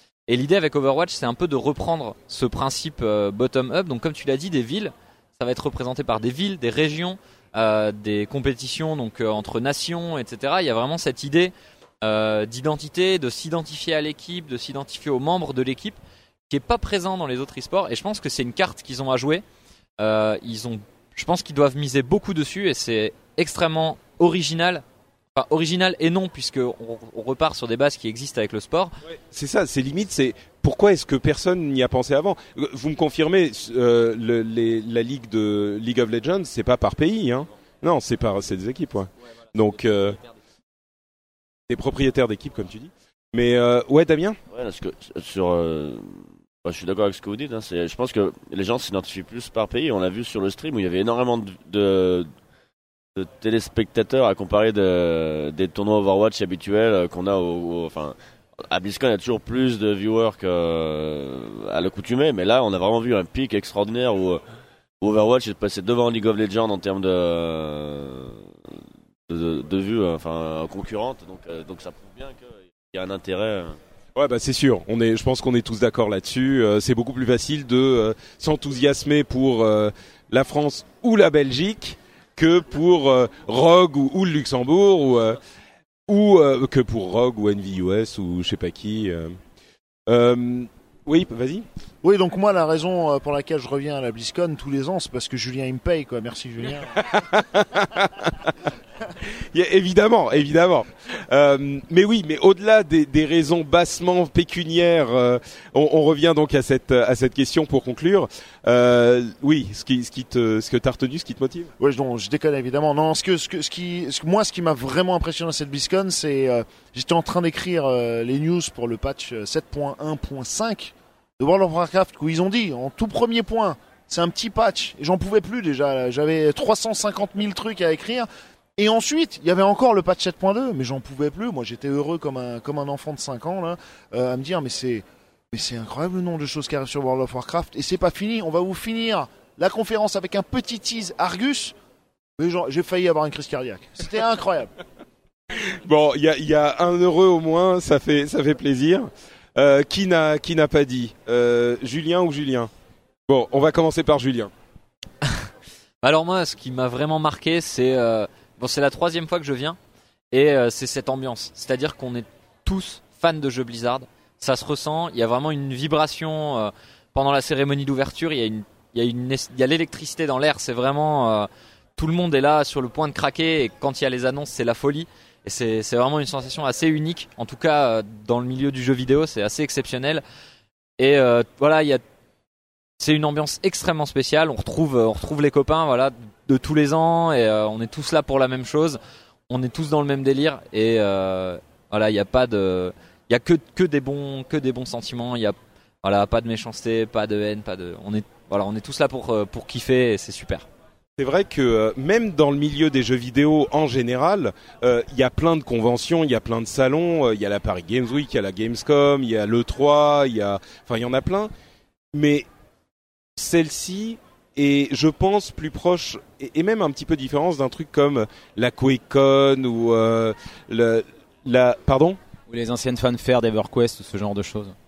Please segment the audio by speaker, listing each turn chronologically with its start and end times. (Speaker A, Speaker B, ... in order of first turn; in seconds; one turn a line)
Speaker A: 0.3-16.0
Speaker A: 16.5-19.4
Speaker A: 20.0-24.8
Speaker A: 25.3-28.9
Speaker B: 29.1-40.2
Speaker B: 41.7-44.4
Speaker C: 44.5-52.3
Speaker C: 53.1-58.1
Speaker C: 58.7-64.4
Speaker C: 65.0-68.4
Speaker C: 69.3-73.8
Speaker B: 74.2-85.4
Speaker B: 86.1-89.3
Speaker B: 90.1-91.7
Speaker D: 92.0-96.9
Speaker B: 97.0-98.5
Speaker B: 99.4-111.7
Speaker D: 111.8-141.7
Speaker D: 142.4-144.7
Speaker B: 145.5-152.7
Speaker B: 153.3-154.5
Speaker A: 156.0-159.8
Speaker A: 160.3-180.2
Speaker A: 181.0-182.0
Speaker A: 183.0-200.7
Speaker B: 201.2-211.5
Speaker B: 212.1-212.4
Speaker B: 213.4-222.2
Speaker E: 222.5-224.7